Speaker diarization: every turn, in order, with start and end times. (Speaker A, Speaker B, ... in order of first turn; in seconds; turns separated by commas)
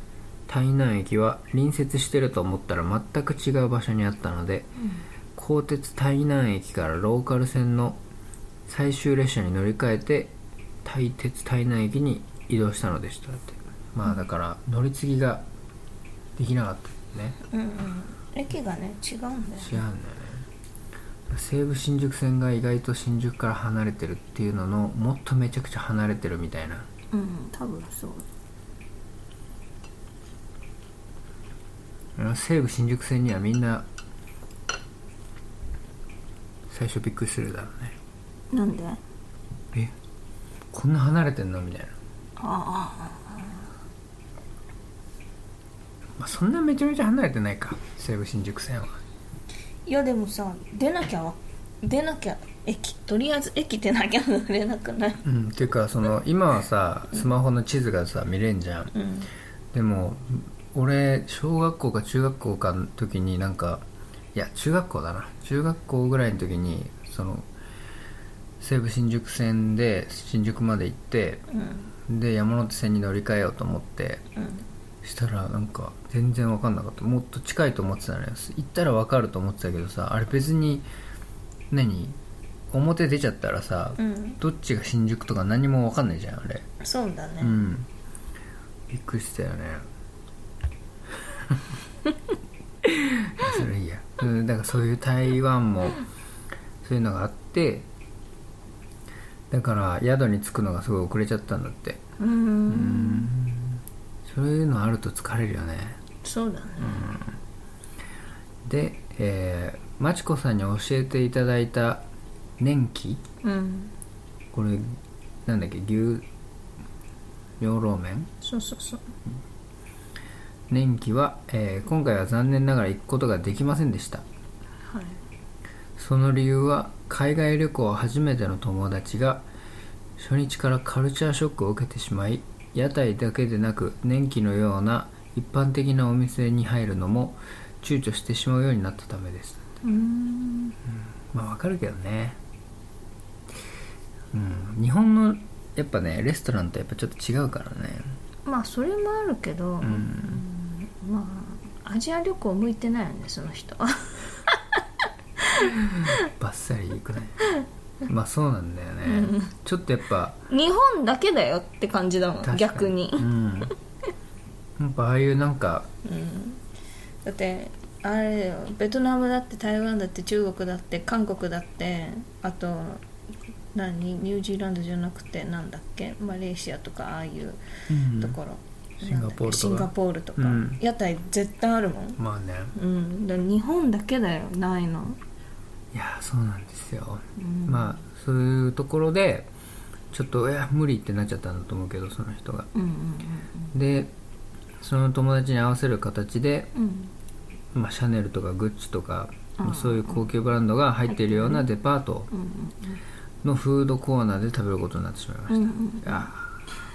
Speaker A: 0.5-4.7, Speaker B: 4.8-5.0, Speaker A: 5.3-8.0, Speaker A: 8.7-15.4, Speaker A: 16.4-17.4, Speaker B: 17.5-19.8, Speaker A: 19.6-20.4, Speaker A: 21.3-26.9, Speaker B: 27.1-28.2, Speaker A: 32.1-33.9, Speaker A: 36.7-38.0, Speaker B: 38.5-39.0, Speaker A: 40.7-41.9, Speaker B: 42.4-43.7, Speaker A: 46.2-49.0, Speaker B: 49.9-55.2, Speaker A: 55.2-58.9, Speaker B: 58.9-59.3, Speaker A: 59.7-67.5, Speaker A: 68.6-71.4, Speaker B: 71.5-71.9, Speaker A: 72.1-74.2, Speaker B: 74.3-74.6, Speaker A: 75.0-80.8, Speaker A: 81.7-82.2, Speaker A: 82.7-86.7, Speaker B: 84.0-84.4, Speaker B: 86.8-87.6, Speaker A: 87.4-87.9, Speaker A: 88.9-89.8, Speaker A: 91.2-91.8, Speaker A: 92.8-96.0, Speaker A: 96.8-97.9, Speaker A: 99.5-102.0, Speaker B: 102.2-103.3, Speaker A: 102.7-106.0, Speaker B: 106.2-107.1, Speaker A: 106.8-107.4, Speaker A: 108.6-112.1, Speaker A: 112.6-113.2, Speaker B: 113.4-113.9, Speaker A: 114.5-116.2, Speaker A: 117.6-118.3, Speaker B: 118.4-119.0, Speaker A: 120.7-124.2, Speaker B: 124.8-125.2, Speaker A: 126.0-129.5, Speaker A: 130.2-139.6, Speaker B: 139.8-140.8, Speaker A: 140.8-142.4, Speaker A: 144.3-148.2, Speaker B: 148.4-154.6, Speaker A: 149.8-150.4, Speaker B: 155.5-156.1, Speaker A: 155.7-157.4, Speaker A: 158.1-160.4, Speaker B: 159.0-159.5, Speaker B: 160.5-163.3, Speaker A: 162.4-163.7, Speaker A: 164.8-165.9, Speaker B: 166.0-166.6, Speaker B: 167.2-173.0, Speaker B: 173.7-182.2, Speaker A: 177.9-178.4, Speaker A: 179.0-180.8, Speaker A: 182.2-182.7, Speaker B: 182.7-185.2, Speaker A: 185.9-189.5, Speaker B: 187.4-188.0, Speaker A: 190.1-192.7, Speaker B: 192.7-193.7, Speaker A: 193.7-194.1, Speaker A: 194.8-196.7, Speaker B: 196.7-197.1, Speaker A: 197.7-202.3, Speaker B: 199.6-200.3, Speaker B: 201.1-201.7, Speaker B: 202.3-203.0, Speaker A: 203.4-206.5, Speaker B: 205.5-206.3